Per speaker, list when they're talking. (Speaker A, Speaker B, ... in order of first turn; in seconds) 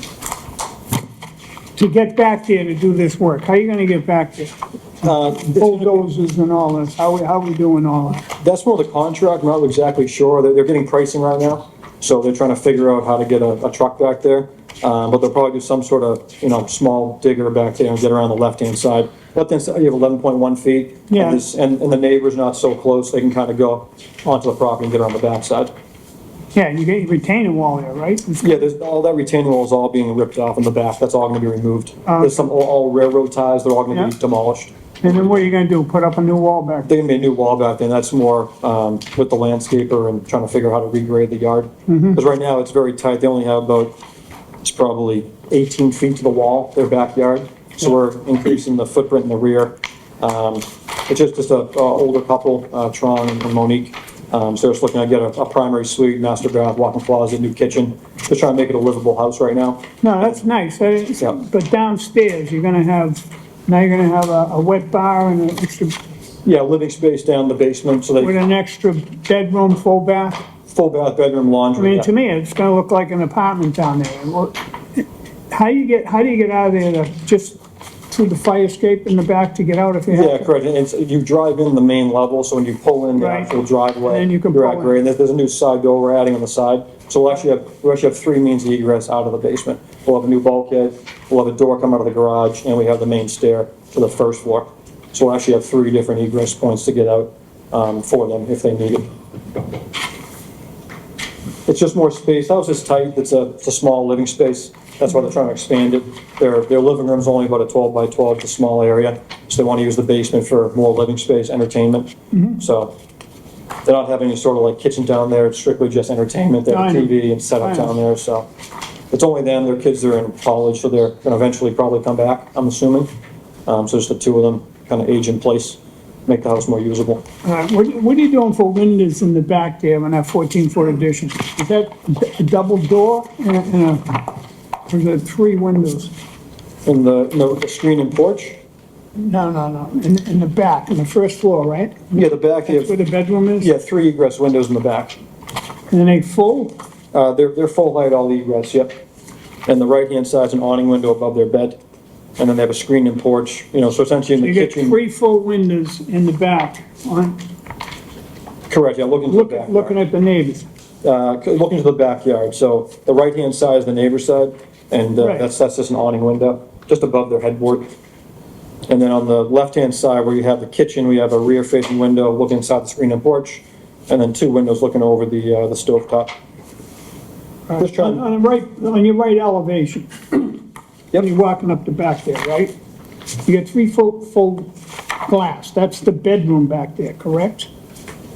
Speaker A: 1.8-8.3, 21.1-21.4, 26.5-28.6, 32.1-32.4, 35.0-36.9, 41.9-42.2, 60.0-66.0, 68.2-70.4, 71.8-77.6, 78.1-80.5, 83.2-83.5, 84.0-85.0, 112.3-112.6, 116.7-117.9, 127.4-134.2, 134.9-136.1, 139.2-142.1, 142.7-143.7, 145.9-146.8, 154.4-157.4, 159.3-160.7, 165.2-165.5, 177.7-180.6, 181.1-182.7, 183.4-184.7, 185.2-187.7
Speaker B: 5.0-6.0, 8.4-25.7, 28.4-35.4, 36.9-44.0, 44.6-60.4, 66.5-68.3, 70.7-72.1, 80.1-99.1, 101.7-112.9, 113.8-118.5, 119.1-123.1, 123.7-127.2, 136.9-138.6, 142.1-143.0, 143.6-145.2, 147.1-149.0, 149.7-151.8, 152.4-155.0, 158.7-160.0, 161.0-167.9, 168.9-176.3, 177.8-178.3